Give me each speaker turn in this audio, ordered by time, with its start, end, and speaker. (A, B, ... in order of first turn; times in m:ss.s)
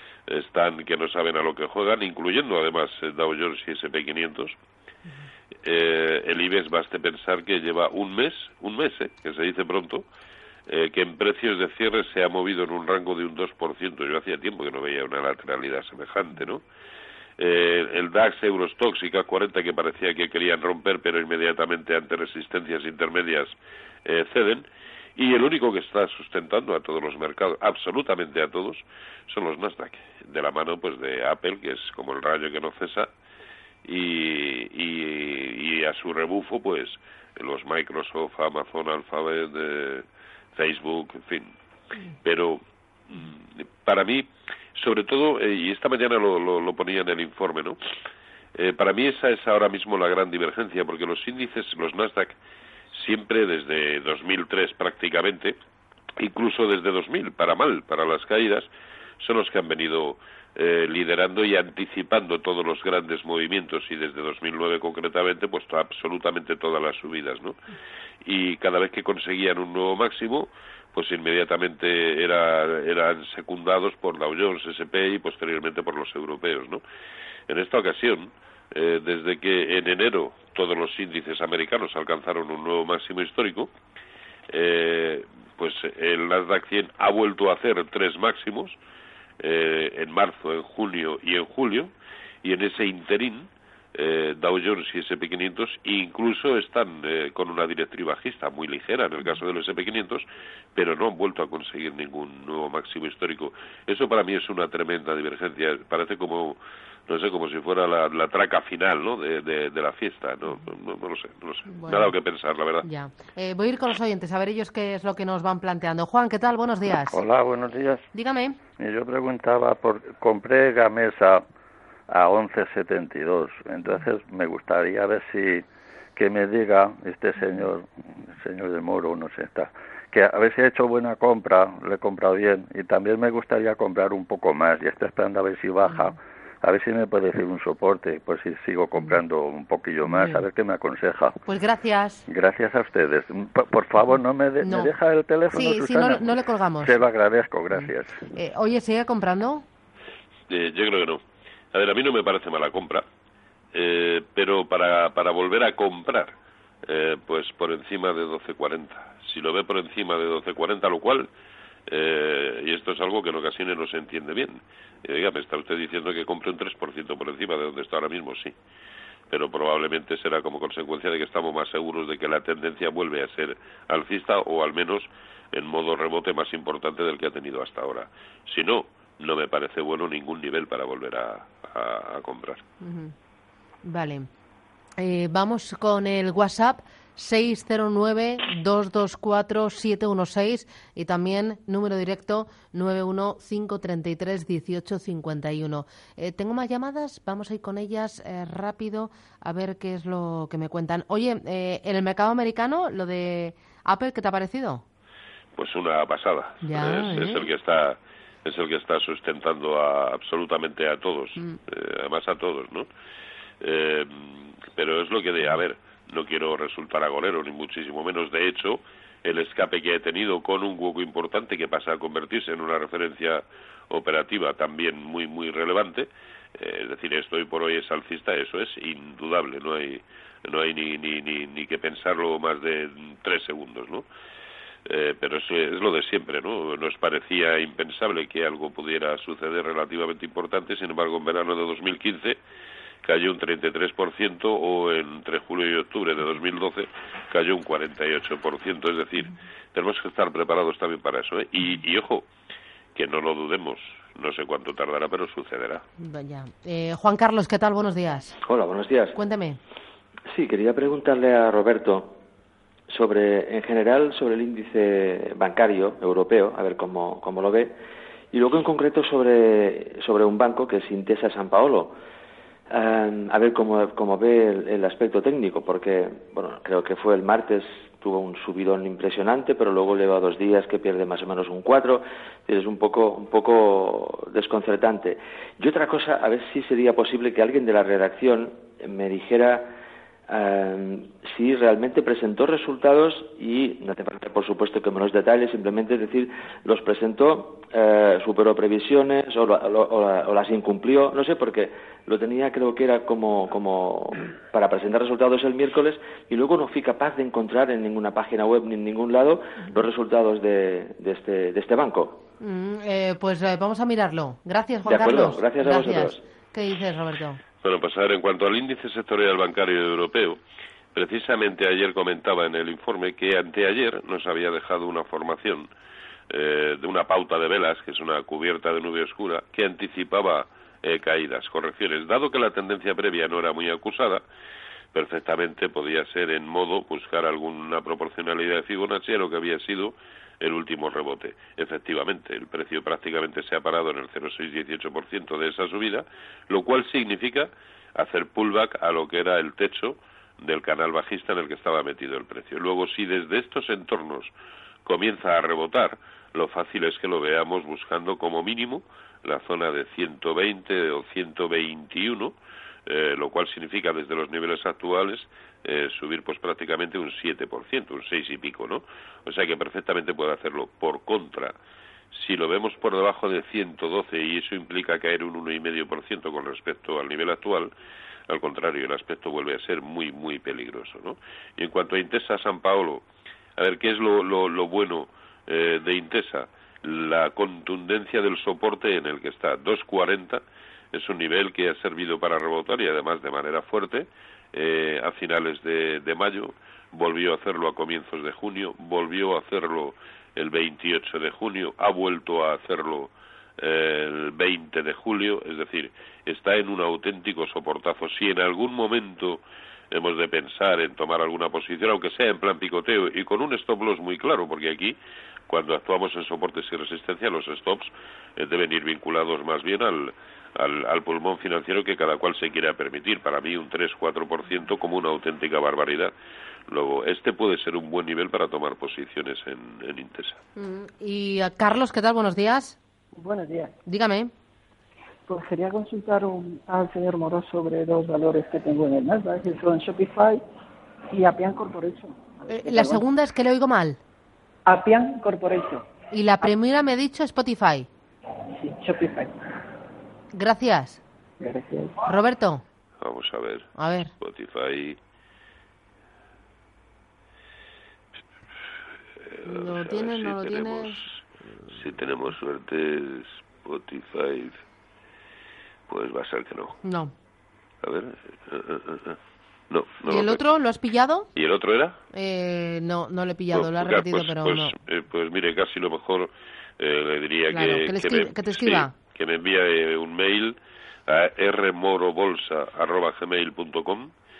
0:00.3-0:04.6 A
0:05.6-0:10.0 A
0:10.7-0:16.6 A
0:17.4-0:23.5 A
0:24.0-0:24.6 A
0:25.2-0:33.1 A
0:33.8-0:41.5 A
0:42.2-0:47.8 A
0:48.5-0:52.3 A
0:52.9-0:55.6 A
0:56.2-0:58.7 A
0:59.2-1:07.6 A
1:08.2-1:16.8 A
1:17.5-1:23.7 A
1:24.5-1:28.8 A
1:29.4-1:31.9 A
1:32.4-1:52.9 A
1:51.7-1:52.1 B
1:52.8-1:57.2 B
1:56.9-1:58.0 C
1:58.1-1:58.6 B
1:58.8-2:01.4 C
2:02.1-2:05.6 C
2:06.2-2:21.4 C
2:15.8-2:16.1 B
2:20.0-2:20.4 B
2:21.4-2:22.2 B
2:22.3-2:28.2 C
2:24.6-2:24.9 B
2:25.5-2:27.0 B
2:27.7-2:29.6 B
2:30.5-2:31.2 A
2:31.7-2:33.0 A
2:33.7-2:36.3 A
2:36.9-2:41.3 A
2:41.9-2:48.5 A
2:49.3-3:02.6 A
3:02.8-3:03.1 B
3:03.8-3:04.3 B
3:05.0-3:24.8 B
3:25.6-3:32.9 A
3:26.6-3:27.5 B
3:33.6-3:54.0 A
3:54.8-4:02.4 A
4:03.0-4:12.3 A
4:13.0-4:15.8 A
4:16.0-4:18.4 B
4:18.4-4:19.2 D
4:19.1-4:19.6 B
4:20.3-4:22.2 D
4:22.9-4:27.7 D
4:28.3-4:31.9 D
4:32.7-4:49.7 D
4:50.3-5:12.2 D
5:12.4-5:17.4 B
5:14.9-5:16.2 D
5:17.6-5:20.4 A
5:20.9-5:25.7 A
5:26.3-5:34.2 A
5:34.9-5:54.3 A
5:54.8-6:02.3 A
6:02.9-6:11.5 A
6:12.1-6:17.7 A
6:18.3-6:23.0 A
6:23.6-6:55.0 A
6:55.5-7:06.1 A
7:06.7-7:10.4 A
7:10.6-7:12.8 B
7:13.2-7:13.7 E
7:13.8-7:14.3 B
7:15.3-7:20.4 E
7:21.1-7:23.0 E
7:22.5-7:24.0 B
7:24.6-7:25.8 E
7:26.1-7:27.9 B
7:28.6-7:29.3 E
7:30.3-7:31.0 B
7:31.4-7:32.0 E
7:32.0-7:32.6 B
7:33.0-7:35.0 A
7:33.8-7:34.1 B
7:39.2-7:44.6 A
7:39.4-7:41.1 B
7:45.9-7:46.8 A
7:46.8-7:47.1 B
7:47.8-7:49.2 A
7:49.7-7:50.4 A
7:50.1-7:51.3 B
7:51.3-7:52.0 A
7:52.1-7:54.7 B
7:53.5-8:04.1 A
7:57.5-7:58.9 B